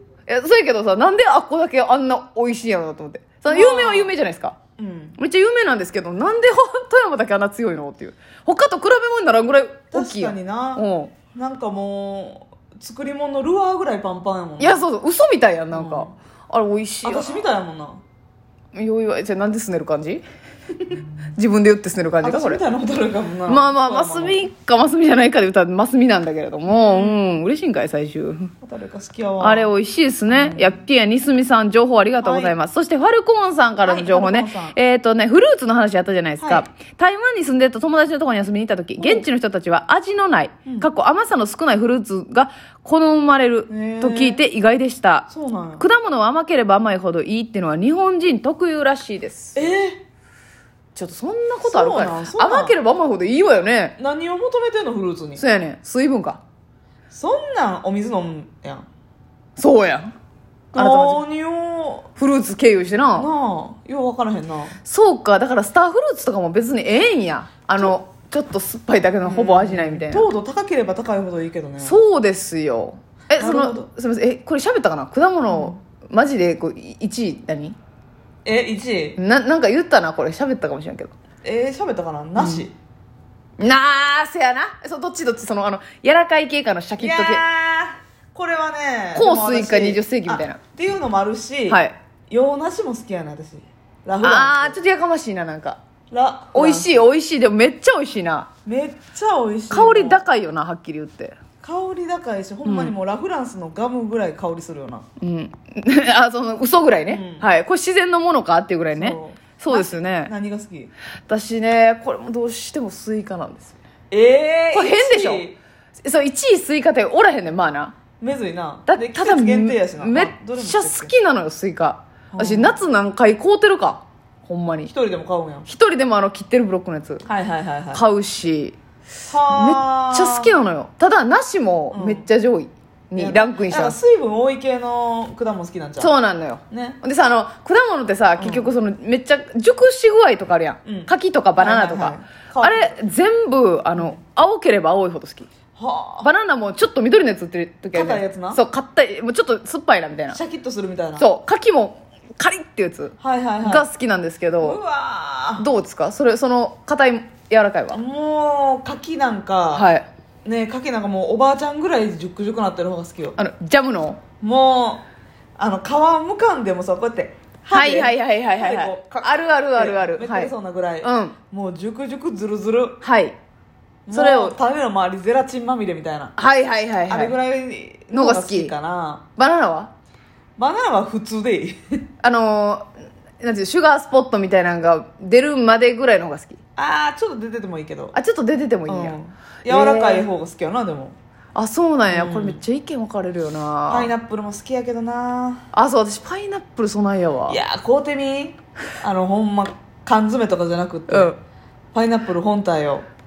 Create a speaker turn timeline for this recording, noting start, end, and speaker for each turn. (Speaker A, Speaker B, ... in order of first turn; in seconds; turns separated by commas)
Speaker A: 0.3-4.6, Speaker B: 3.5-4.1, Speaker B: 4.8-5.2, Speaker A: 5.2-11.1, Speaker B: 9.9-14.8, Speaker A: 14.6-17.4, Speaker B: 15.7-16.1, Speaker B: 17.0-18.0, Speaker A: 18.7-20.2, Speaker A: 21.4-22.6, Speaker B: 22.2-24.4, Speaker A: 23.5-28.5, Speaker B: 26.7-27.2, Speaker B: 28.6-29.7, Speaker A: 29.4-45.3, Speaker B: 30.3-30.8, Speaker B: 32.2-32.6, Speaker B: 33.8-34.8, Speaker B: 36.4-36.6, Speaker B: 39.0-39.3, Speaker B: 43.7-44.4, Speaker B: 45.3-45.9, Speaker A: 45.8-49.6, Speaker B: 49.5-50.0, Speaker A: 51.0-54.0, Speaker B: 51.6-52.8, Speaker B: 54.0-55.4, Speaker A: 55.4-56.4, Speaker B: 57.1-58.9, Speaker A: 59.6-60.1, Speaker B: 60.7-62.1, Speaker A: 60.8-61.2, Speaker A: 62.2-63.3, Speaker B: 63.1-64.8, Speaker A: 64.8-70.3, Speaker B: 69.2-72.0, Speaker A: 71.8-77.8, Speaker B: 73.4-73.9, Speaker B: 75.5-75.8, Speaker B: 78.5-79.2, Speaker A: 79.2-81.1, Speaker B: 81.4-82.7, Speaker A: 82.4-82.7, Speaker A: 83.6-87.4, Speaker B: 87.0-94.8, Speaker A: 89.2-90.6, Speaker A: 91.7-92.0, Speaker A: 94.2-95.8, Speaker B: 96.1-97.0, Speaker A: 96.5-98.5, Speaker B: 98.7-100.2, Speaker A: 99.7-101.4, Speaker B: 101.6-105.0, Speaker A: 102.7-102.9, Speaker A: 105.2-110.3, Speaker B: 107.1-107.5, Speaker B: 108.9-110.9, Speaker A: 111.3-113.8, Speaker B: 114.1-115.6, Speaker A: 114.7-115.5, Speaker A: 116.0-118.0, Speaker B: 118.2-121.1, Speaker A: 118.9-124.9, Speaker B: 122.3-122.8, Speaker B: 124.8-125.7, Speaker A: 125.7-127.2, Speaker B: 127.3-128.1, Speaker A: 127.9-128.8, Speaker B: 129.3-130.6, Speaker A: 129.5-134.0, Speaker B: 131.9-132.3, Speaker B: 133.2-136.1, Speaker A: 136.0-145.5, Speaker B: 136.7-137.0, Speaker B: 138.4-138.7, Speaker B: 140.8-142.9, Speaker B: 145.8-146.3, Speaker A: 146.2-150.4, Speaker B: 147.9-148.6, Speaker B: 150.3-151.3, Speaker A: 151.2-154.8, Speaker B: 153.2-153.9, Speaker B: 154.6-155.7, Speaker A: 155.6-158.0, Speaker B: 157.9-159.9, Speaker A: 159.7-160.1, Speaker B: 160.4-163.4, Speaker A: 163.4-164.2, Speaker B: 164.4-165.1, Speaker B: 165.6-173.0, Speaker A: 167.7-171.4, Speaker A: 173.0-173.4, Speaker B: 174.1-176.3, Speaker A: 174.1-174.6, Speaker A: 176.4-177.4, Speaker B: 177.1-179.2, Speaker A: 178.1-178.7, Speaker A: 179.4-179.9, Speaker B: 180.6-181.8, Speaker A: 182.2-182.9, Speaker A: 183.4-186.6, Speaker B: 186.8-188.2, Speaker A: 188.1-190.2, Speaker B: 188.9-191.2, Speaker A: 191.6-194.1, Speaker B: 192.1-192.6, Speaker B: 193.9-195.7, Speaker A: 195.7-197.6, Speaker B: 197.5-201.3, Speaker A: 201.1-201.4, Speaker B: 201.9-203.1